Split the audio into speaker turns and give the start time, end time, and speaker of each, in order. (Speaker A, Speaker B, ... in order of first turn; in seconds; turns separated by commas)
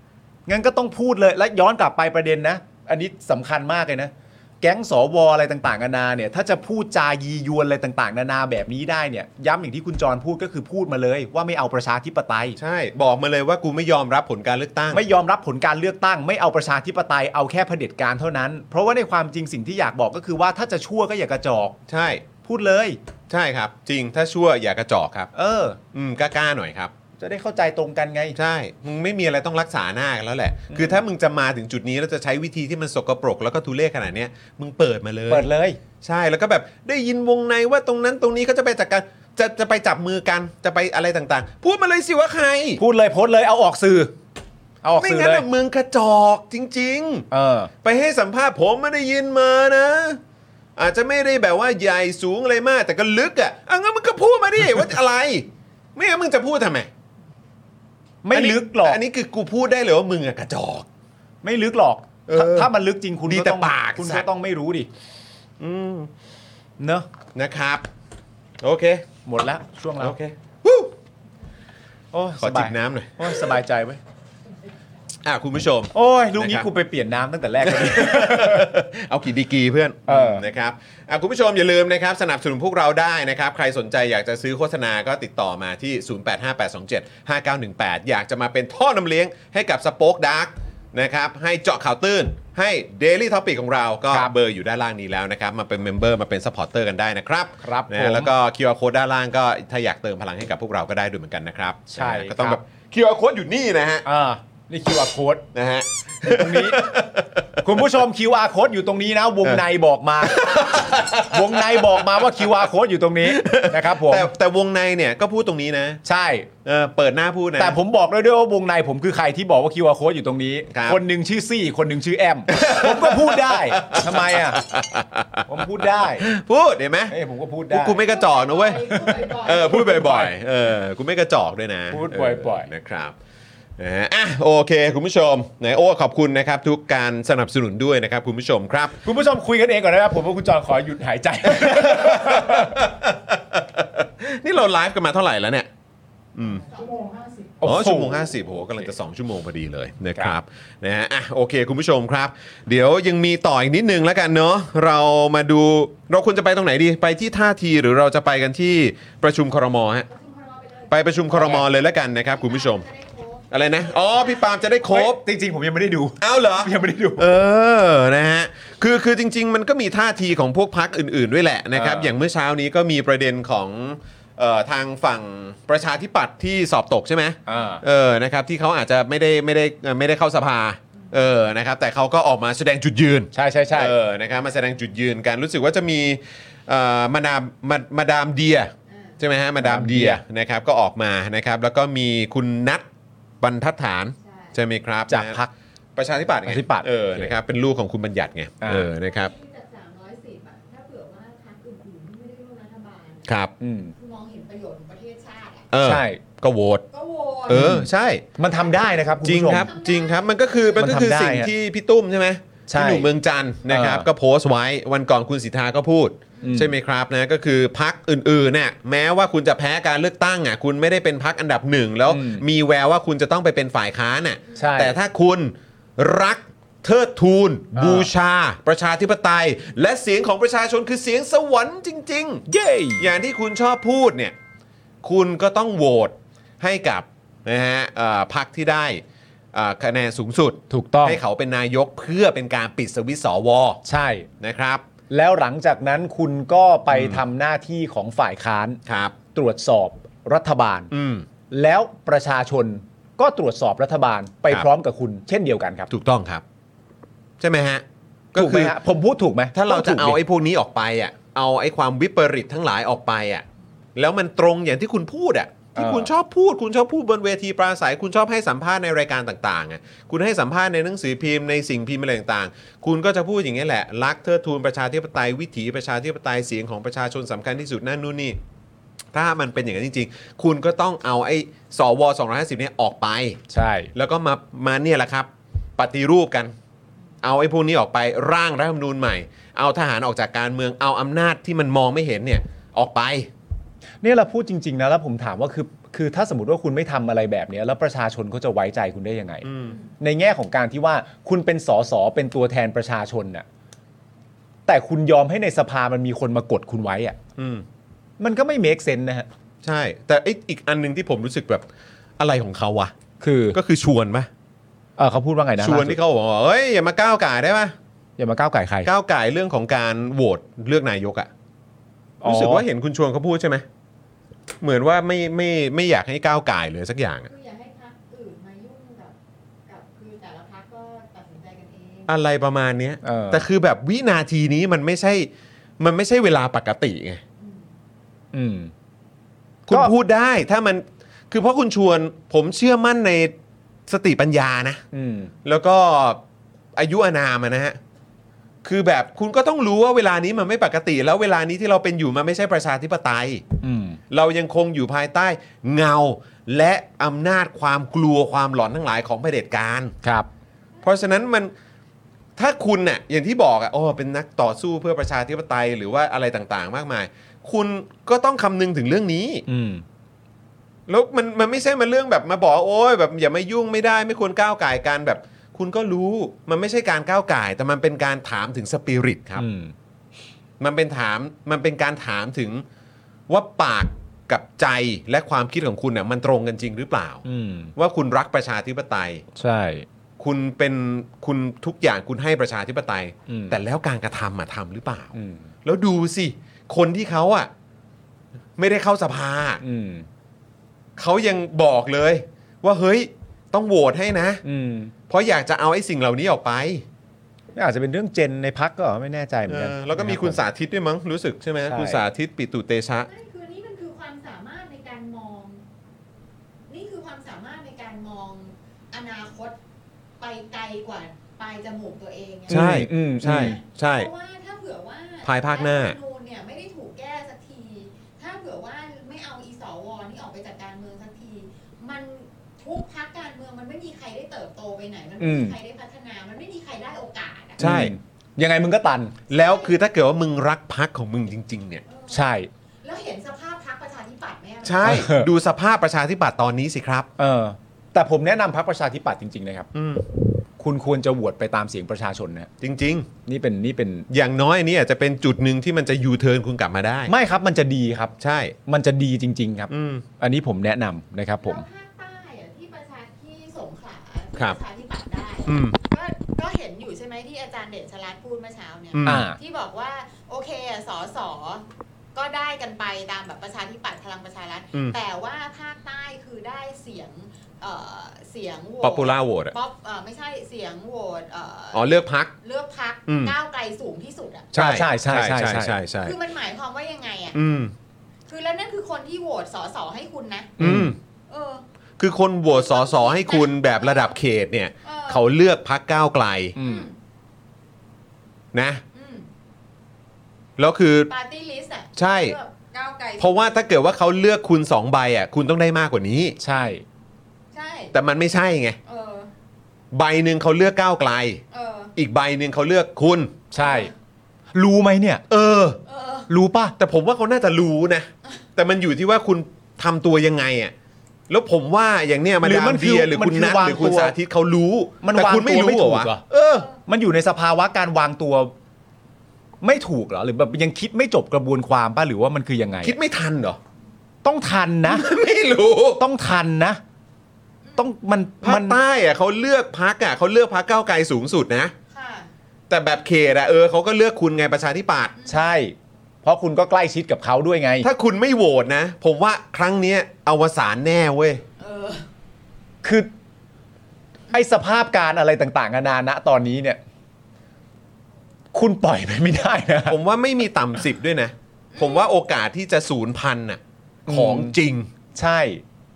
Speaker A: 0.5-12.6, Speaker B: 12.6-15.1, Speaker A: 14.9-21.8, Speaker B: 21.9-22.2, Speaker A: 22.4-23.0, Speaker B: 23.3-25.3, Speaker A: 25.3-25.8, Speaker B: 25.9-26.9, Speaker A: 27.2-28.4, Speaker B: 28.4-35.5, Speaker A: 30.7-31.0, Speaker A: 35.3-35.8, Speaker B: 36.0-42.8, Speaker A: 42.8-44.1, Speaker A: 44.8-45.5, Speaker B: 45.0-47.3, Speaker A: 47.3-47.7, Speaker B: 47.8-50.2, Speaker B: 50.8-56.9, Speaker A: 58.2-59.0, Speaker B: 58.3-60.9, Speaker A: 61.4-64.9, Speaker B: 62.3-62.7, Speaker B: 63.3-64.3, Speaker B: 65.6-66.1, Speaker A: 66.8-67.1, Speaker B: 67.3-67.9, Speaker B: 68.6-69.0, Speaker A: 69.2-70.2, Speaker B: 70.0-70.9, Speaker A: 72.1-74.0, Speaker B: 72.4-73.6, Speaker B: 75.2-76.7, Speaker A: 75.9-78.7, Speaker B: 77.6-104.0, Speaker A: 80.1-80.4, Speaker A: 97.6-98.3, Speaker A: 101.9-102.6, Speaker A: 104.0-105.5, Speaker B: 105.5-107.8, Speaker A: 106.2-106.9, Speaker A: 107.6-114.3, Speaker B: 110.2-112.4, Speaker B: 113.2-116.0, Speaker A: 116.0-116.5, Speaker B: 116.7-117.8, Speaker A: 117.6-124.6, Speaker B: 120.7-121.0, Speaker B: 122.5-127.2, Speaker A: 125.5-126.3, Speaker A: 127.1-128.1, Speaker B: 127.7-133.2, Speaker C: 128.0-129.9, Speaker A: 128.9-130.3, Speaker A: 131.9-132.7, Speaker B: 133.8-139.0, Speaker A: 139.0-142.8, Speaker B: 141.5-145.7, Speaker B: 146.4-146.7, Speaker C: 146.5-147.5, Speaker A: 147.6-148.2, Speaker B: 147.6-160.1, Speaker C: 160.1-161.1, Speaker B: 160.9-162.9, Speaker A: 161.3-161.7, Speaker C: 162.3-164.8, Speaker B: 163.5-165.2, Speaker A: 164.9-167.3, Speaker B: 166.2-192.9, Speaker A: 171.7-172.1, Speaker A: 177.4-177.8, Speaker A: 183.3-183.9, Speaker C: 188.9-189.2, Speaker A: 189.6-190.2, Speaker B: 193.4-195.4, Speaker C: 194.2-194.6, Speaker A: 195.1-195.5, Speaker B: 195.9-199.3, Speaker A: 196.4-197.3, Speaker A: 198.6-198.9, Speaker C: 198.9-203.3, Speaker B: 203.3-203.5, Speaker A: 203.6-203.9, Speaker C: 203.9-205.7, Speaker B: 205.7-206.8, Speaker A: 205.8-206.2, Speaker C: 206.9-207.7, Speaker B: 207.5-208.2, Speaker A: 207.5-209.7, Speaker C: 208.6-211.1, Speaker B: 209.2-232.4, Speaker A: 210.8-211.5, Speaker A: 212.7-213.1, Speaker A: 213.7-214.1, Speaker A: 216.4-216.8, Speaker A: 222.1-222.4, Speaker A: 224.6-225.0, Speaker A: 227.7-228.1, Speaker A: 232.5-233.1, Speaker B: 233.0-234.4, Speaker B: 235.0-243.8, Speaker A: 240.7-241.2, Speaker A: 243.8-244.3, Speaker B: 244.4-244.8, Speaker A: 245.1-248.8, Speaker B: 246.9-247.2, Speaker B: 248.9-249.2, Speaker A: 249.3-250.9, Speaker B: 250.9-251.3, Speaker A: 251.5-255.9, Speaker B: 255.9-256.4, Speaker B: 257.4-258.8, Speaker A: 258.4-260.2, Speaker B: 259.5-278.4, Speaker A: 265.7-266.1, Speaker B: 279.1-283.4, Speaker A: 283.5-283.9, Speaker B: 283.9-286.5, Speaker B: 287.2-293.3, Speaker A: 294.0-299.5, Speaker B: 299.4-299.8, Speaker C: 299.6-299.9, Speaker A: 300.0-303.4, Speaker A: 304.7-307.2, Speaker B: 307.4-307.6, Speaker A: 308.2-309.3, Speaker B: 309.6-311.7, Speaker B: 312.2-312.9, Speaker A: 313.2-313.6, Speaker B: 313.5-314.3, Speaker A: 315.0-316.0, Speaker B: 315.6-317.7, Speaker A: 318.2-318.9, Speaker B: 318.9-321.3, Speaker A: 322.2-322.6, Speaker B: 322.2-323.6, Speaker B: 324.6-327.3, Speaker C: 327.3-329.1, Speaker C: 329.7-332.1, Speaker B: 332.1-337.2, Speaker A: 333.0-333.5, Speaker C: 337.4-337.7, Speaker A: 338.3-338.7, Speaker B: 339.7-343.3, Speaker B: 343.9-344.8, Speaker A: 344.9-345.3, Speaker B: 345.4-346.2, Speaker B: 346.7-347.8, Speaker B: 348.6-353.4, Speaker A: 353.6-354.0, Speaker B: 354.1-359.9, Speaker A: 360.0-360.3, Speaker B: 360.8-361.5, Speaker B: 362.4-369.4, Speaker A: 369.5-369.8, Speaker B: 370.9-379.5, Speaker A: 379.4-379.7, Speaker B: 380.6-382.6, Speaker B: 383.3-387.2, Speaker A: 387.2-387.7, Speaker B: 387.8-389.2, Speaker A: 389.4-389.9, Speaker B: 390.2-395.1, Speaker A: 393.3-393.6, Speaker A: 395.1-395.5, Speaker B: 395.6-397.5, Speaker B: 398.6-399.6, Speaker A: 399.6-400.1, Speaker B: 400.9-404.4, Speaker A: 404.4-404.9, Speaker B: 405.1-406.9, Speaker A: 407.6-410.4, Speaker B: 409.5-413.1, Speaker A: 411.6-412.0, Speaker C: 413.1-415.6, Speaker C: 416.7-419.6, Speaker C: 420.2-422.7, Speaker A: 422.5-423.6, Speaker B: 422.5-424.1, Speaker C: 423.2-437.6, Speaker B: 425.2-426.0, Speaker A: 435.2-435.6, Speaker B: 437.6-437.9, Speaker A: 437.6-439.2, Speaker B: 439.3-441.8, Speaker C: 439.3-439.8, Speaker C: 441.9-442.2, Speaker A: 442.1-442.5, Speaker C: 442.8-445.0, Speaker B: 444.6-447.1, Speaker A: 444.8-445.3, Speaker A: 447.2-449.7, Speaker B: 449.7-450.1, Speaker A: 450.6-452.5, Speaker B: 452.6-453.1, Speaker A: 453.3-454.1, Speaker B: 454.1-457.1, Speaker A: 457.1-458.1, Speaker B: 458.2-458.6, Speaker A: 458.7-461.6, Speaker B: 459.7-460.1, Speaker C: 461.4-484.5, Speaker B: 465.4-465.8, Speaker B: 468.9-469.3, Speaker A: 469.0-469.4, Speaker B: 474.7-475.0, Speaker B: 478.8-479.6, Speaker B: 481.7-482.3, Speaker B: 483.1-483.3, Speaker A: 484.5-485.8, Speaker B: 484.5-486.2, Speaker C: 486.0-487.4, Speaker B: 487.3-487.7, Speaker C: 488.3-490.6, Speaker A: 490.6-490.9, Speaker B: 490.6-491.0, Speaker C: 491.3-491.6, Speaker B: 492.0-496.6, Speaker C: 492.5-494.1, Speaker C: 494.8-495.3, Speaker A: 496.6-496.9, Speaker C: 496.6-496.9, Speaker B: 498.5-498.8, Speaker C: 498.9-499.3, Speaker B: 500.6-501.1, Speaker C: 501.1-503.4, Speaker B: 501.9-502.4, Speaker B: 503.2-506.4, Speaker A: 506.4-506.8, Speaker C: 507.5-507.9, Speaker B: 507.9-508.8, Speaker C: 508.9-509.3, Speaker B: 509.9-511.4, Speaker C: 511.5-511.9, Speaker B: 511.9-513.4, Speaker A: 513.5-513.9, Speaker C: 513.6-513.9, Speaker A: 514.5-515.2, Speaker B: 515.3-515.8, Speaker C: 515.9-516.3, Speaker A: 516.3-516.7, Speaker B: 516.8-520.7, Speaker B: 521.3-526.7, Speaker A: 522.4-524.1, Speaker A: 525.0-526.2, Speaker A: 526.9-528.5, Speaker A: 529.6-533.0, Speaker B: 532.8-533.6, Speaker A: 534.2-535.1, Speaker B: 534.9-536.0, Speaker A: 536.0-536.8, Speaker A: 537.8-538.8, Speaker B: 538.4-541.7, Speaker C: 541.9-542.3, Speaker B: 542.7-545.1, Speaker C: 545.2-545.5, Speaker A: 545.3-547.9, Speaker B: 547.8-551.4, Speaker C: 551.6-552.1, Speaker A: 552.8-553.1, Speaker A: 554.3-556.8, Speaker A: 558.5-560.0, Speaker B: 559.9-564.9, Speaker C: 561.7-562.1, Speaker A: 564.1-564.6, Speaker A: 565.1-565.6